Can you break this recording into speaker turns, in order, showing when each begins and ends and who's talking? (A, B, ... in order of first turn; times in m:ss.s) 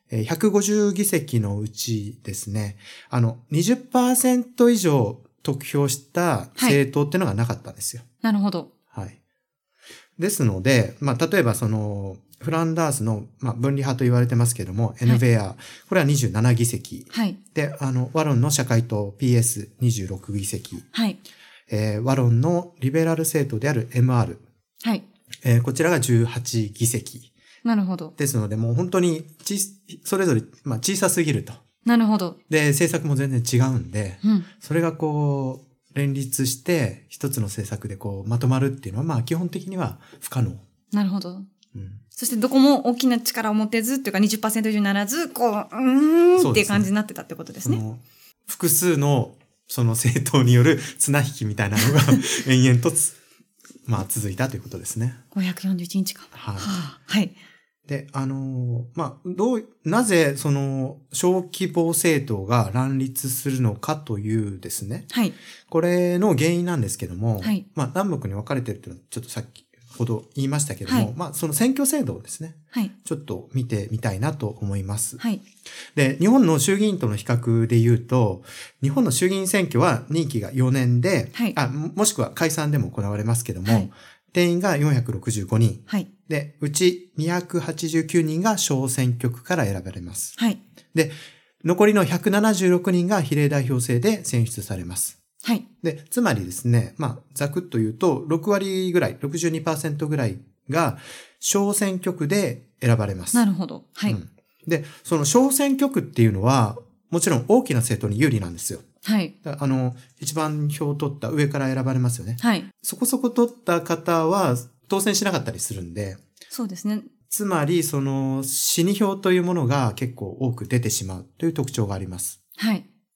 0:00.1-0:08.0 A
0:08.2-0:08.7 B
0:10.2-0:20.9 A
0:17.1-0:17.4 B
0:20.9-0:21.2 B
0:21.7-0:24.4 A
0:25.4-0:27.3 A
0:27.6-0:28.1 B
0:28.2-0:31.6 A
0:31.8-0:32.4 B
0:32.5-0:40.6 A
0:34.2-0:34.5 B
0:40.9-0:41.5 B
0:41.7-0:42.0 A
0:42.1-0:47.8 B
0:46.4-0:46.9 A
0:47.6-0:53.2 A
0:53.9-0:55.2 A
0:55.3-0:57.4 B
0:56.3-0:56.7 A
0:57.9-1:05.1 A
1:05.1-1:05.4 B
1:05.7-1:15.2 A
1:16.0-1:30.4 A
1:23.6-1:23.9 B
1:30.9-1:35.2 A
1:35.8-1:43.5 A
1:43.3-1:44.2 B
1:44.1-1:48.8 A
1:49.0-1:49.3 B
1:49.4-1:56.2 A
1:52.4-1:52.7 B
1:56.5-1:57.1 B
1:57.3-2:02.4 A
2:02.6-2:02.8 B